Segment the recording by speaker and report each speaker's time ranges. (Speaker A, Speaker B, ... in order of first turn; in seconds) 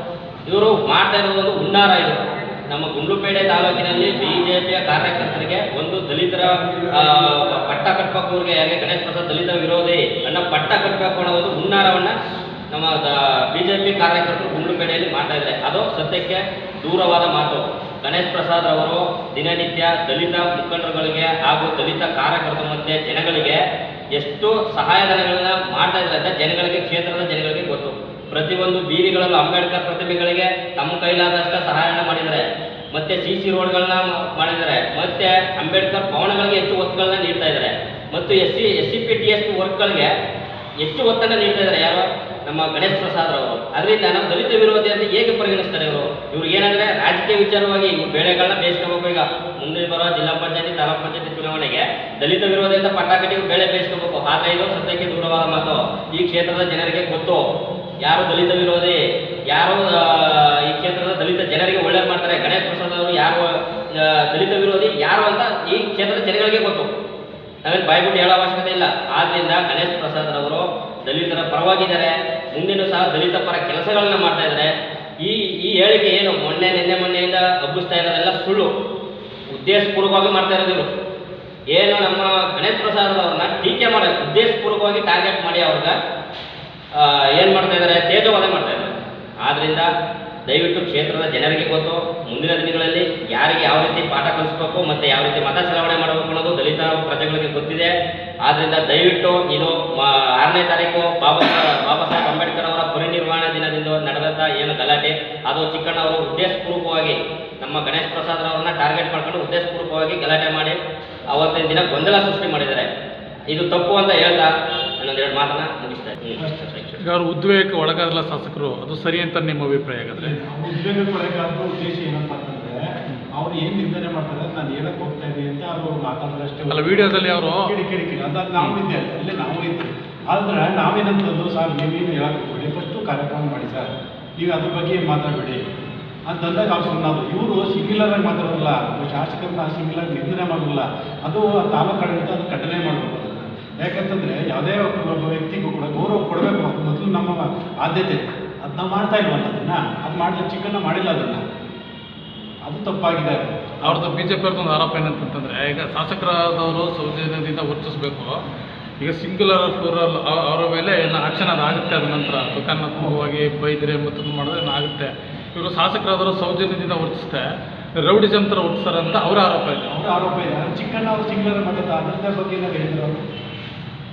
Speaker A: 0.5-12.2, 12.7-40.1, 40.8-57.5, 58.0-66.9, 67.7-78.7, 79.5-80.9, 81.7-86.0, 86.9-89.9, 90.5-110.8, 111.3-112.9, 113.5-117.0
Speaker B: 116.4-116.8, 120.2-122.8, 123.3-135.6, 136.3-151.4, 152.6-154.1, 163.0-163.2, 169.8-173.2
Speaker C: 117.0-120.3, 126.7-127.7, 153.8-158.4, 159.0-169.9